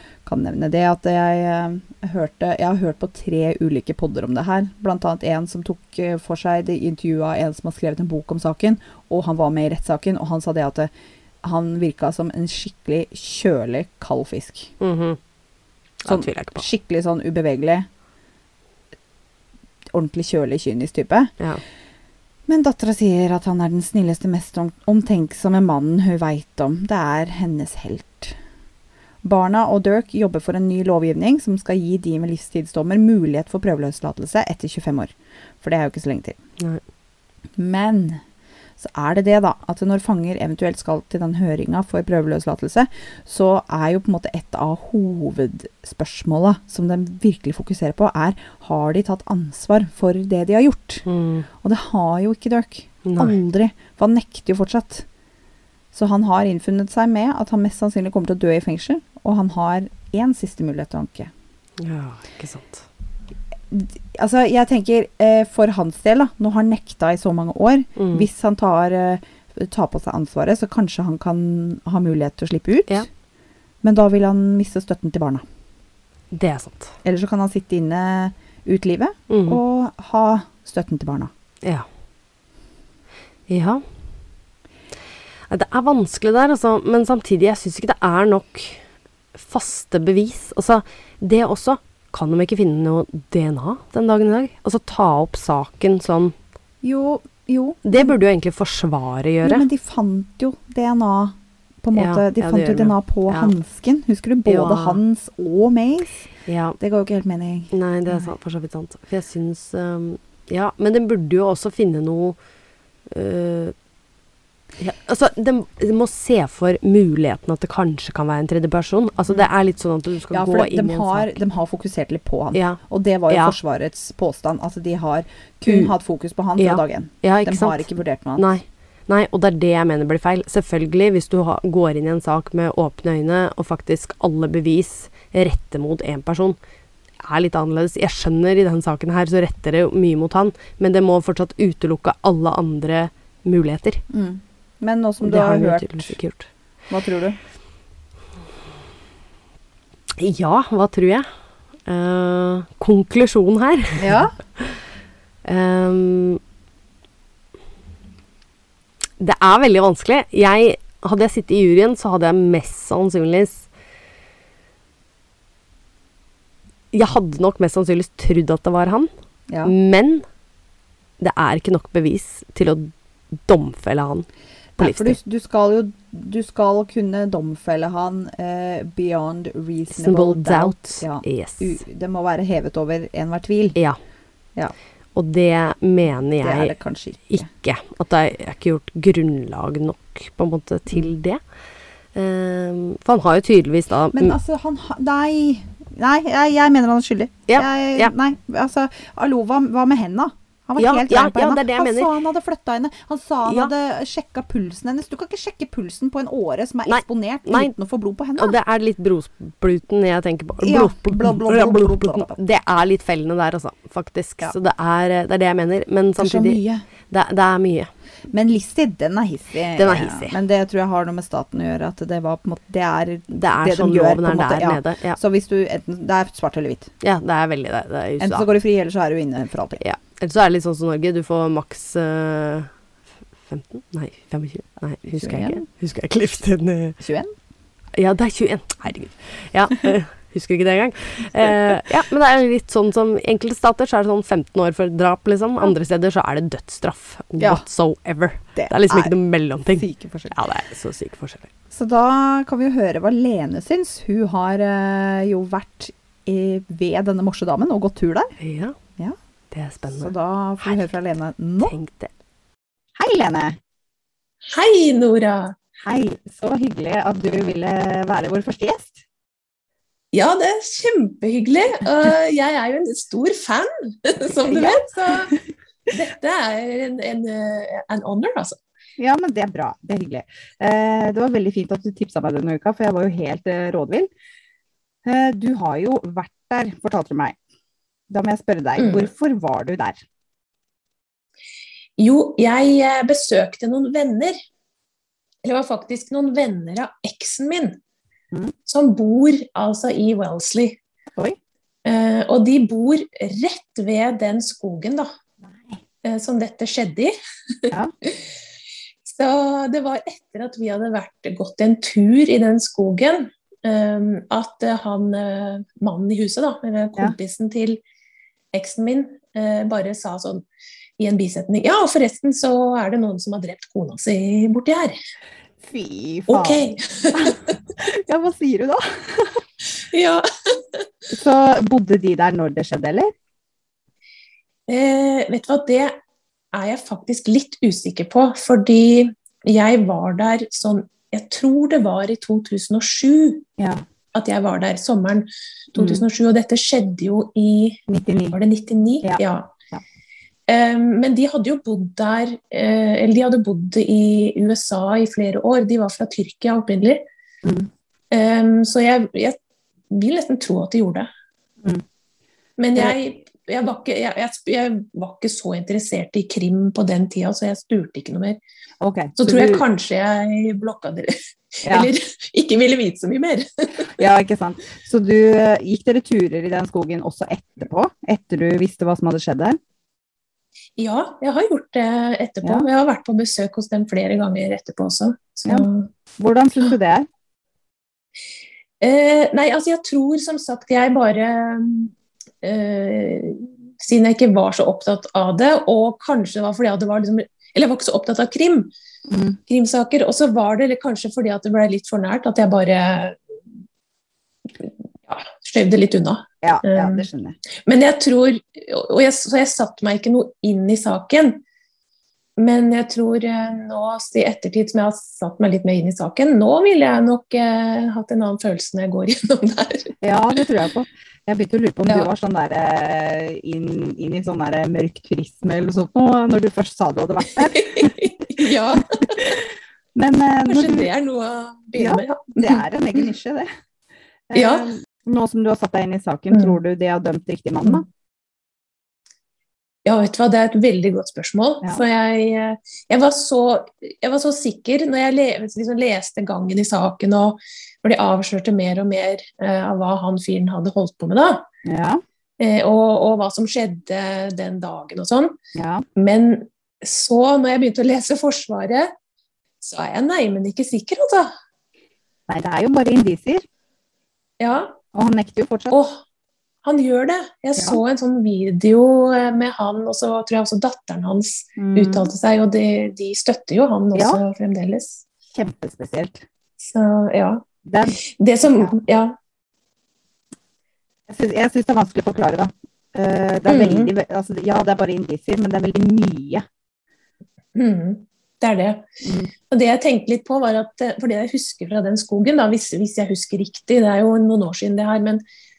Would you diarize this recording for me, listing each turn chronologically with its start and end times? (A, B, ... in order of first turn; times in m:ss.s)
0:00.2-0:10.9 A
0:11.4-0:14.7 A
0:14.8-0:15.2 B
0:16.0-0:16.6 B
0:16.0-0:17.9 A
0:19.9-0:21.3 A
0:22.5-0:28.4 A
0:29.2-0:36.4 A
0:37.6-0:38.2 A
0:38.8-0:51.0 A
0:51.0-0:51.4 B
0:51.6-0:55.0 A
0:53.0-0:53.4 B
0:55.9-1:01.3 A
1:01.8-1:02.8 B
1:03.7-1:13.1 A
1:08.0-1:08.2 B
1:13.8-1:15.4 A
1:16.3-1:16.9 B
1:17.0-1:21.3 A
1:19.3-1:19.6 B
1:23.5-1:23.8 B
1:25.5-1:28.8 B
1:29.3-1:36.3 B
1:36.8-1:38.2 A
1:37.8-1:39.6 B
1:39.4-1:46.2 A
1:41.9-1:43.5 B
1:44.4-1:45.0 B
1:46.4-1:46.8 B
1:46.8-1:48.3 A
1:47.7-1:52.4 B
1:53.1-1:53.7 B
1:54.8-2:01.4 B
2:00.3-2:08.5 A
2:02.5-2:03.6 B
2:05.6-2:05.9 B
2:06.6-2:07.8 B
2:08.4-2:16.6 B
2:17.2-2:24.0 B
2:24.1-2:26.2 A
2:25.2-2:26.5 B
2:26.9-2:27.4 A
2:30.2-2:31.3 B
2:31.8-2:34.8 B
2:34.0-2:34.3 A
2:35.4-2:36.4 B
2:39.2-2:43.7 B
2:46.9-2:49.1 B
2:49.5-2:49.7 A
2:49.6-2:50.2 B
2:51.2-2:54.3 B
2:54.8-3:03.8 A
2:54.8-2:55.2 B
2:59.9-3:01.8 B
3:05.1-3:06.7 B
3:06.4-3:07.5 A
3:07.3-3:11.4 B
3:12.1-3:14.4 B
3:14.1-3:28.6 A
3:17.5-3:18.1 B
3:20.8-3:22.1 B
3:23.4-3:23.7 B
3:26.8-3:27.7 B
3:28.4-3:36.6 B
3:30.6-3:32.4 A
3:36.2-3:36.8 A
3:37.1-3:37.9 B
3:38.3-3:46.9 A
3:39.7-3:40.3 B
3:43.3-3:45.2 B
3:47.0-3:48.5 B
3:48.2-3:49.8 A
3:49.8-3:52.7 B
3:53.5-3:57.0 B
3:55.1-3:55.6 A
3:57.0-3:57.3 A
3:57.9-4:11.5 B
4:07.4-4:07.6 A
4:08.5-4:09.1 A
4:09.7-4:10.4 A
4:11.7-4:18.4 A
4:18.4-4:18.8 B
4:19.5-4:20.8 B
4:19.9-4:21.8 A
4:21.6-4:22.1 B
4:23.0-4:23.6 A
4:24.5-4:25.6 C
4:25.8-4:29.0 A
4:30.1-4:35.3 C
4:34.5-4:35.3 A
4:35.9-4:38.6 C
4:39.0-4:44.1 A
4:45.0-4:47.4 A
4:48.1-4:50.0 A
4:48.8-4:49.1 C
4:52.0-4:54.4 C
4:55.4-4:57.8 C
4:58.7-5:00.8 C
5:01.8-5:05.1 C
5:05.4-5:05.8 A
5:06.0-5:08.1 C
5:09.0-5:17.8 C
5:18.5-5:20.4 C
5:21.0-5:25.0 C
5:25.6-5:29.4 A
5:26.3-5:27.5 C
5:29.8-5:30.8 C
5:31.1-5:33.1 A
5:34.7-5:35.9 C
5:36.5-5:43.5 C
5:43.6-5:43.8 A
5:44.1-5:49.5 C
5:47.9-5:48.4 A
5:49.0-5:49.8 A
5:50.5-5:57.0 C
5:57.4-5:57.7 A
5:58.1-5:59.4 C
5:59.9-6:01.1 C
6:02.6-6:08.4 C
6:08.8-6:09.6 A
6:09.2-6:14.0 C
6:11.6-6:11.9 A
6:14.0-6:19.6 A
6:20.8-6:25.9 C
6:26.2-6:27.1 A
6:28.8-6:38.7 C
6:39.1-6:39.4 A
6:39.5-6:43.2 C
6:44.6-6:47.0 C
6:46.4-6:47.4 A
6:47.6-6:51.4 C
6:52.4-6:59.9 C
7:00.0-7:09.2 A
7:07.4-7:09.4 C
7:09.9-7:10.9 A
7:10.5-7:13.1 C
7:11.8-7:13.5 A
7:14.3-7:17.8 A
7:14.3-7:14.7 C
7:16.3-7:16.6 C
7:19.8-7:31.4 C
7:31.6-7:32.0 A
7:32.4-7:35.4 C
7:35.5-7:35.8 A
7:36.0-7:38.9 C
7:39.6-7:41.3 C
7:42.3-7:43.4 A
7:44.4-7:44.8 C
7:44.9-7:45.7 A
7:45.7-7:46.0 C
7:46.6-7:55.0 C
7:51.6-7:52.1 A
7:53.9-7:54.2 A
7:55.3-7:56.2 A
7:56.6-7:57.4 C
7:57.6-7:58.8 A
7:58.0-7:59.2 C
8:01.1-8:06.4 A
8:03.5-8:03.9 C
8:07.5-8:08.9 C
8:09.0-8:09.3 A
8:09.5-8:15.2 C